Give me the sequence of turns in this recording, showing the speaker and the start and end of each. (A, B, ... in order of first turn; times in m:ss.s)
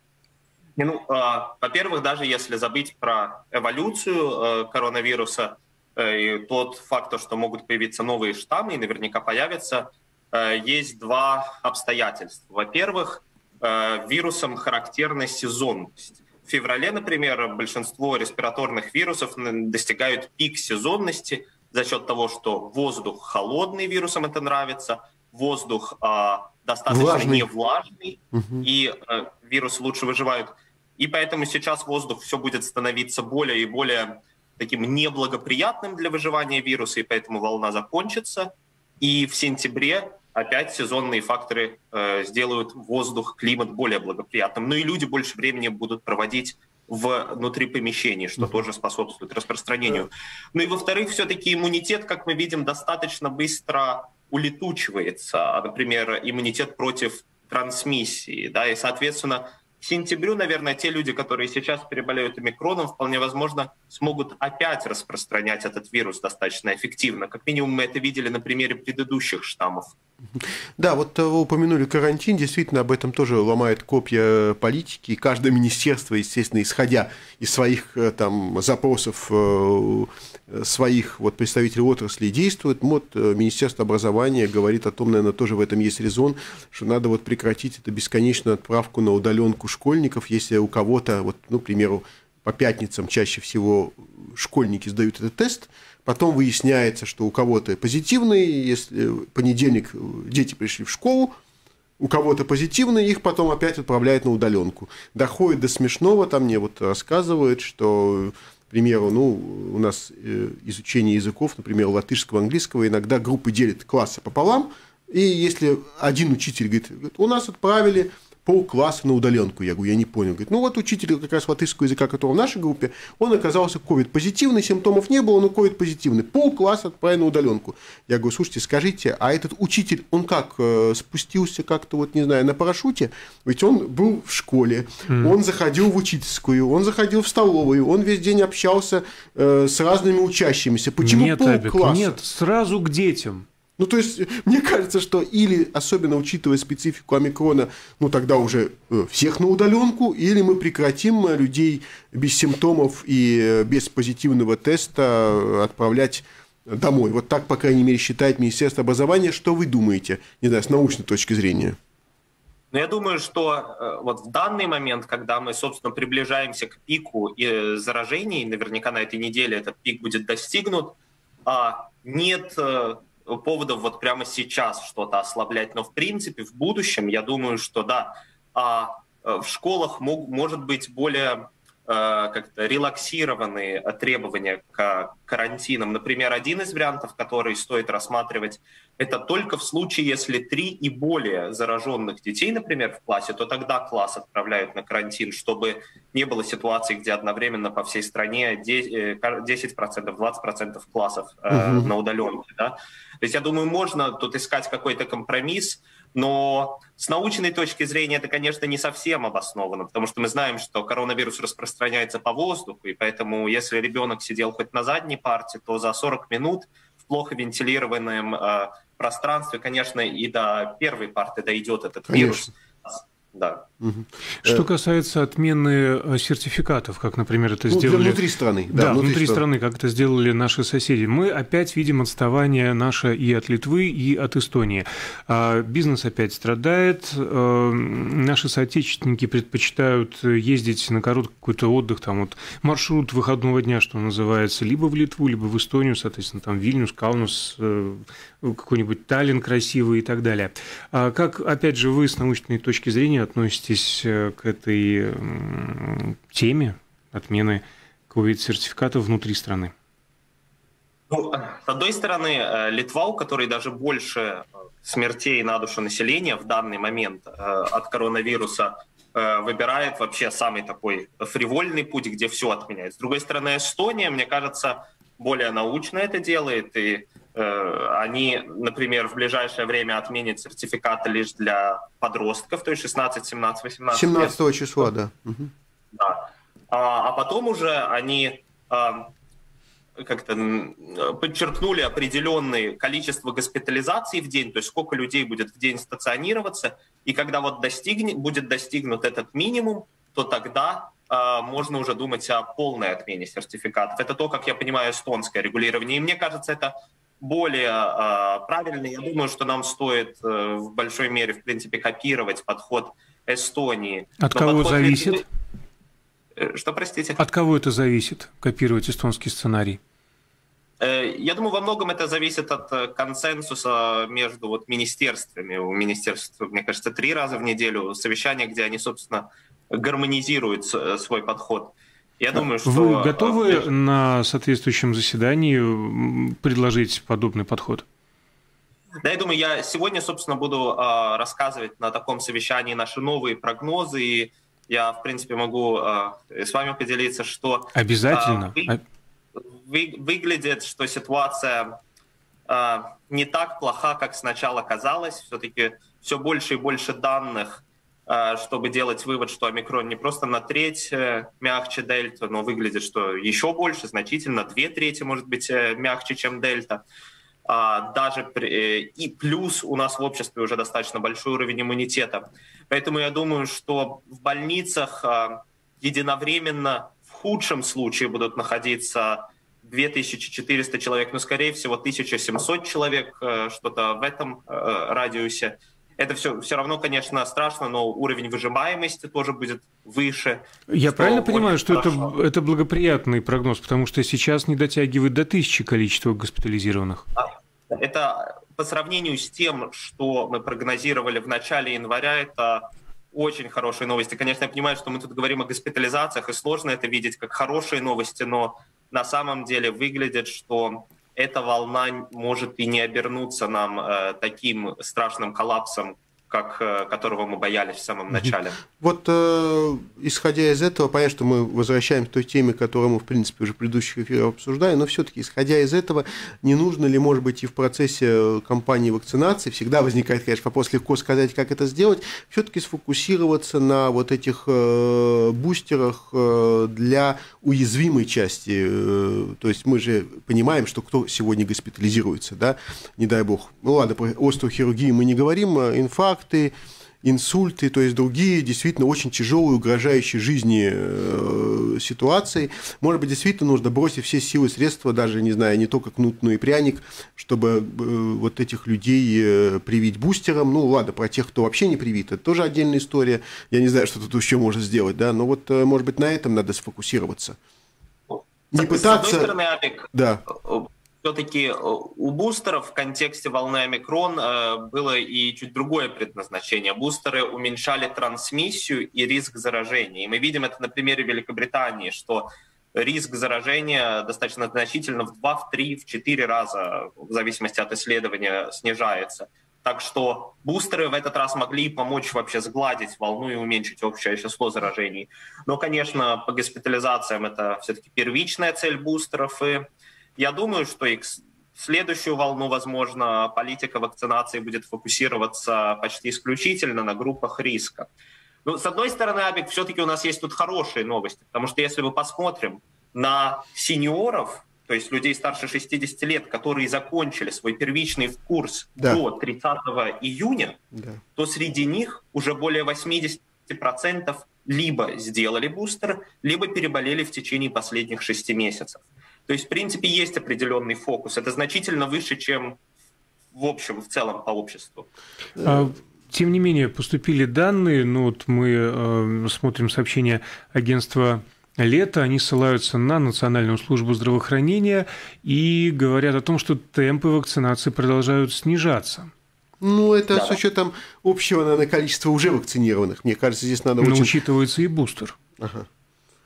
0:00.8-1:09.9 A
0:26.9-0:27.5 B
0:28.3-0:28.7 B
1:10.4-1:41.3 B
1:42.0-2:22.2 B
2:15.1-2:15.4 C
2:21.0-2:23.4 C
2:23.8-2:41.8 B
2:42.7-3:43.6 A
3:21.5-3:21.9 B
3:42.1-3:42.5 B
3:43.8-3:44.7 B
3:44.4-4:19.7 C
3:47.7-3:49.4 B
4:21.1-4:44.4 A
4:43.9-4:45.5 B
4:45.9-4:49.1 A
4:50.0-5:15.2 A
5:14.2-5:15.2 C
5:16.4-5:17.2 A
5:17.2-5:19.8 C
5:20.8-5:33.7 A
5:32.4-5:37.8 C
5:39.0-5:48.7 A
5:47.7-5:48.8 C
5:49.4-5:51.7 A
5:52.5-6:06.8 A
6:07.5-6:32.1 A
6:30.7-6:37.0 C
6:37.1-6:58.6 A
6:58.1-7:47.4 B
7:48.1-8:19.6 A
7:48.5-7:49.3 B
7:49.9-7:50.2 B
8:20.2-8:27.9 A
8:28.4-8:40.6 A
8:40.7-8:41.0 B
8:41.1-8:52.6 A
8:53.3-8:54.9 A
8:55.4-9:09.1 C
9:09.6-9:14.2 B
9:10.1-9:10.4 A
9:13.8-9:15.2 C
9:15.4-9:15.6 B